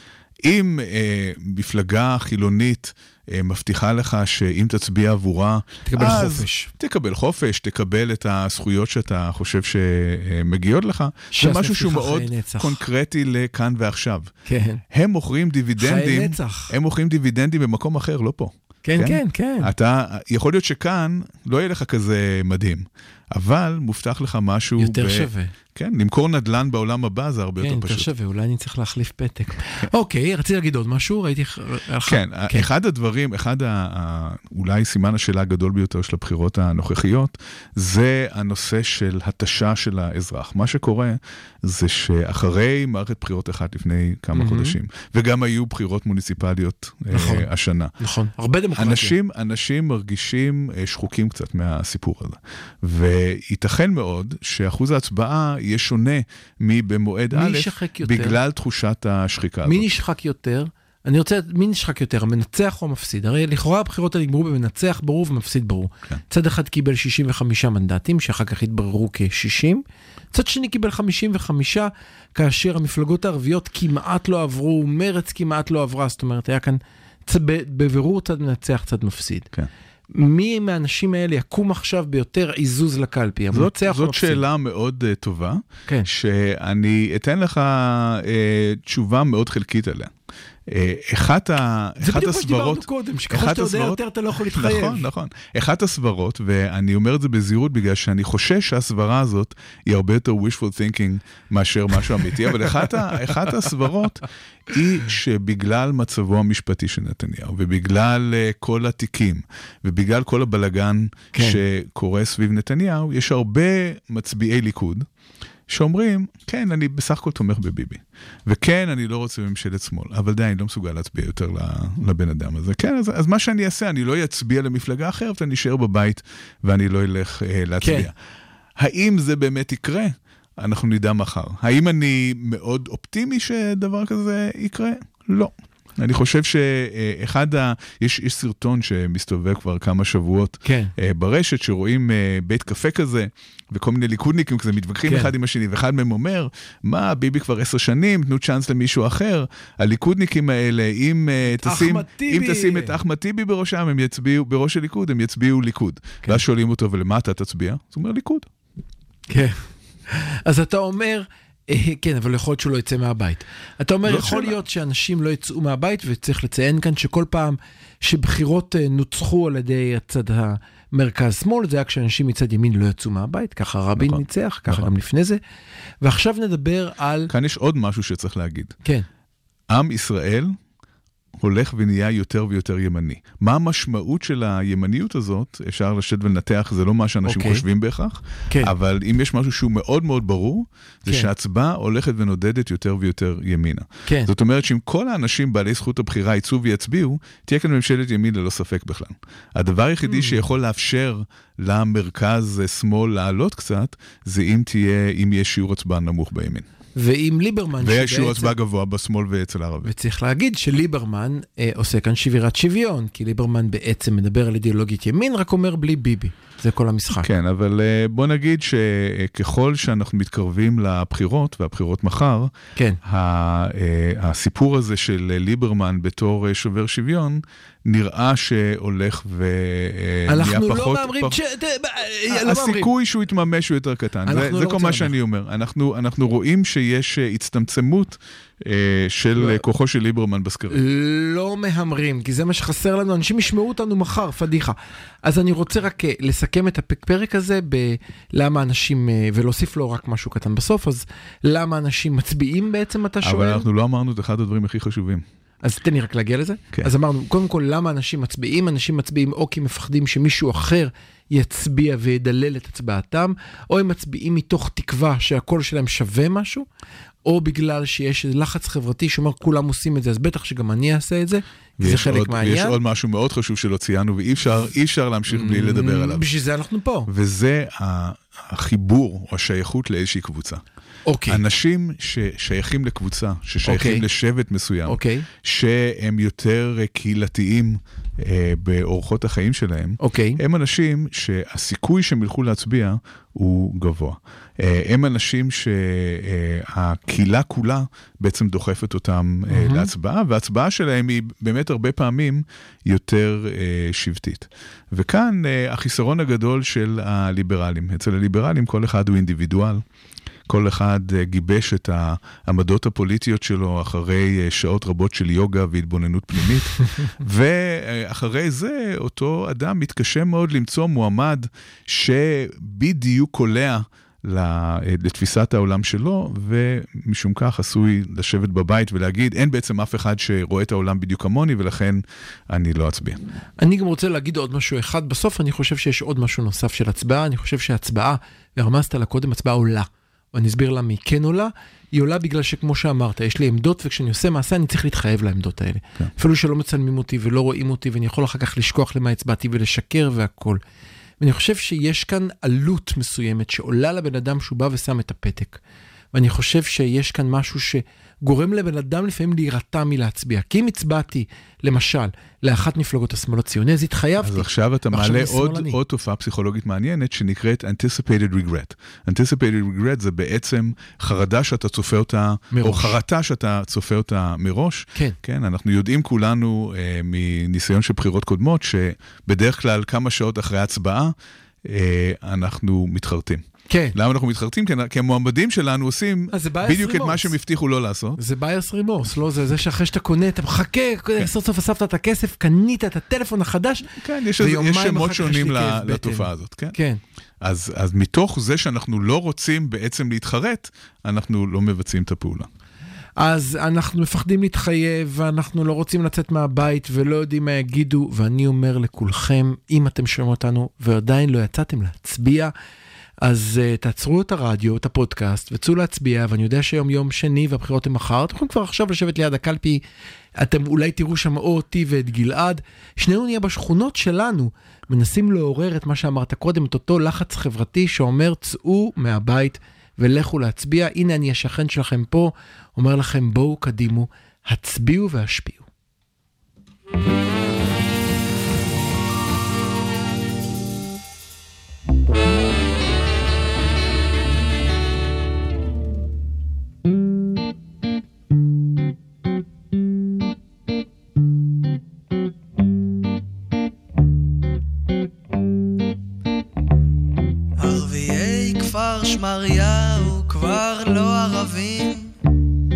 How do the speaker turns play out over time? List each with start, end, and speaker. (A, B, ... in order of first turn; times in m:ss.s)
0:00.4-0:14.3 A
0:05.9-0:06.7 B
0:11.3-0:12.8 B
0:14.5-0:14.8 B
0:14.9-0:28.1 A
0:15.8-0:16.7 B
0:18.8-0:19.7 B
0:24.8-0:25.5 B
0:27.6-0:32.7 B
0:32.1-0:47.9 A
0:44.4-0:44.8 B
0:47.1-0:47.5 B
0:48.0-0:49.2 B
0:48.8-0:59.9 A
0:57.3-0:58.4 B
0:59.6-1:19.5 B
1:20.1-1:24.4 B
1:23.5-1:30.1 A
1:30.7-1:55.1 A
1:32.0-1:35.1 B
1:51.3-1:51.6 B
1:55.7-2:08.2 A
2:07.8-2:08.1 B
2:08.8-2:38.5 A
2:20.6-2:20.9 B
2:25.1-2:25.3 B
2:31.5-2:33.0 B
2:39.3-2:55.4 B
2:44.1-2:44.6 A
2:54.0-2:54.9 A
2:56.0-2:57.3 B
2:57.3-2:58.8 A
2:59.7-3:00.6 A
3:01.4-3:26.7 A
3:07.3-3:07.6 B
3:20.1-3:20.4 B
3:27.0-3:28.5 B
3:27.8-3:29.9 A
3:29.8-3:37.3 B
3:37.1-3:42.5 A
3:43.0-3:51.4 A
3:50.3-3:52.9 B
3:52.3-4:00.8 A
3:54.3-3:55.1 B
3:59.4-3:59.6 B
4:00.7-4:13.7 B
4:13.2-4:15.2 A
4:15.6-4:26.7 B
4:27.2-4:32.8 B
4:31.8-4:36.2 A
4:35.3-4:37.1 B
4:37.1-4:40.6 A
4:41.1-4:41.4 B
4:41.3-5:09.8 A
4:43.6-4:44.0 B
4:44.9-4:45.3 B
4:50.0-4:50.4 B
4:59.5-4:59.9 B
5:10.5-5:33.2 A
5:33.6-5:50.6 B
5:51.2-5:55.6 B
5:56.1-6:05.8 B
6:04.2-6:28.2 A
6:12.5-6:13.0 B
6:23.7-6:24.0 B
6:26.3-6:27.3 B
6:28.2-6:33.9 B
6:33.9-6:36.8 A
6:34.4-6:37.0 B
6:37.4-6:42.5 A
6:43.2-6:52.5 B
6:53.2-6:59.8 B
7:00.4-7:15.7 B
7:37.6-7:42.2 C